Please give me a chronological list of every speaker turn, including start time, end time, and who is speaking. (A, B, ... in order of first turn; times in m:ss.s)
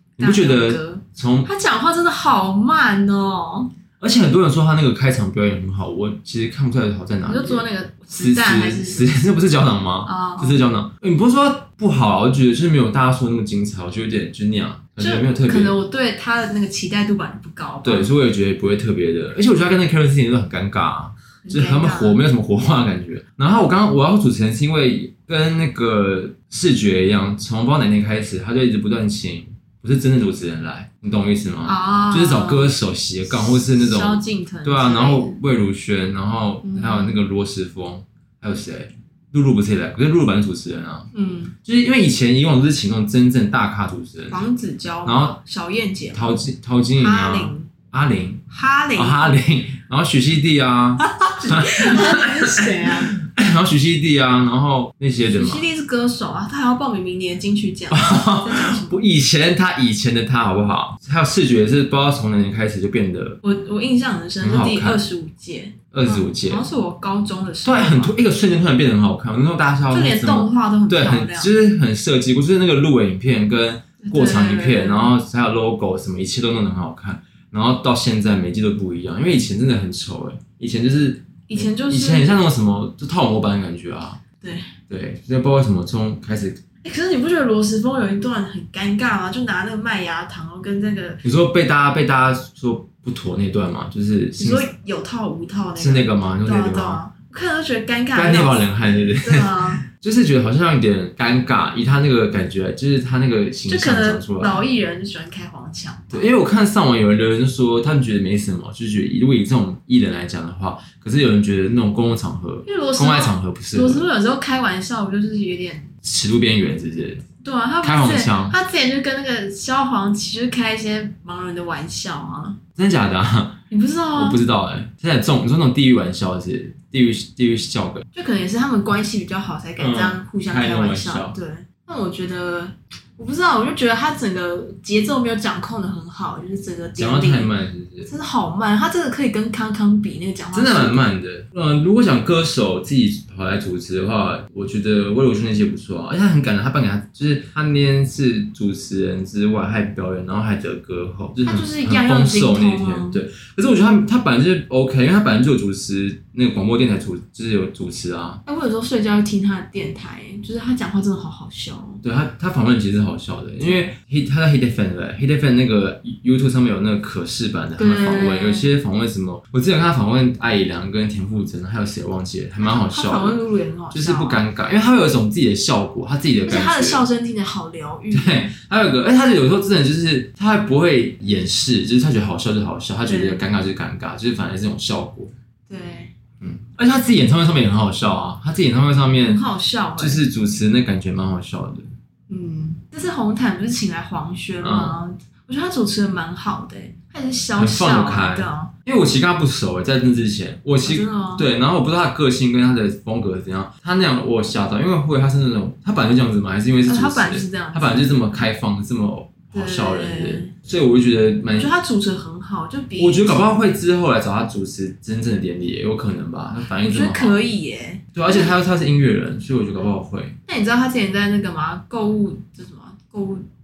0:00.2-0:01.5 A
0:00.2-0:03.7 B
0:04.0-0:07.6 A
0:07.2-0:09.2 B
0:08.1-0:15.7 A
0:10.0-0:10.6 B
0:15.0-0:18.1 B
0:17.8-0:41.1 A
0:21.4-0:22.2 B
0:31.6-0:32.7 B
0:33.3-0:35.4 B
0:36.6-0:37.2 B
0:41.1-0:41.5 B
0:41.6-0:44.4 A
0:44.3-0:46.3 B
0:45.0-0:45.4 A
0:46.1-0:48.4 A
0:47.0-0:47.7 B
0:48.5-0:49.4 B
0:48.9-0:55.6 A
0:51.0-0:53.1 B
0:55.2-0:59.0 B
0:57.9-1:03.4 A
1:03.4-1:08.2 B
1:04.4-1:05.0 A
1:05.9-1:06.6 A
1:07.6-1:24.2 A
1:09.9-1:11.5 B
1:14.0-1:15.1 B
1:21.5-1:22.4 B
1:24.4-1:24.7 B
1:24.9-1:26.6 A
1:26.8-1:31.2 B
1:31.2-1:34.7 A
1:34.4-1:39.8 B
1:35.8-1:37.0 A
1:38.1-1:44.6 A
1:43.7-1:46.3 B
1:46.1-1:54.1 A
1:52.6-1:55.9 B
1:56.0-1:57.2 A
1:57.4-2:02.6 B
1:57.8-1:58.6 A
2:02.8-2:03.6 A
2:03.7-2:04.4 B
2:04.1-2:08.0 A
2:08.1-2:17.5 B
2:09.8-2:11.4 A
2:17.0-2:18.1 A
2:18.0-2:21.0 B
2:20.5-2:38.4 A
2:31.4-2:33.2 B
2:38.4-2:42.0 B
2:42.0-2:53.4 A
2:47.8-2:48.7 B
2:52.6-2:54.4 B
2:53.9-2:57.0 A
2:56.4-2:58.5 B
2:58.1-3:05.3 A
3:03.0-3:03.4 B
3:05.7-3:06.1 B
3:06.4-3:09.4 A
3:09.2-3:10.2 B
3:10.0-3:11.9 A
3:12.3-3:18.7 B
3:14.6-3:15.0 A
3:17.6-3:31.7 A
3:20.8-3:21.5 B
3:26.8-3:28.1 B
3:29.5-3:30.5 B
3:31.6-3:33.5 B
3:33.0-3:37.4 A
3:36.8-3:38.5 B
3:38.1-3:40.4 A
3:40.5-3:43.5 B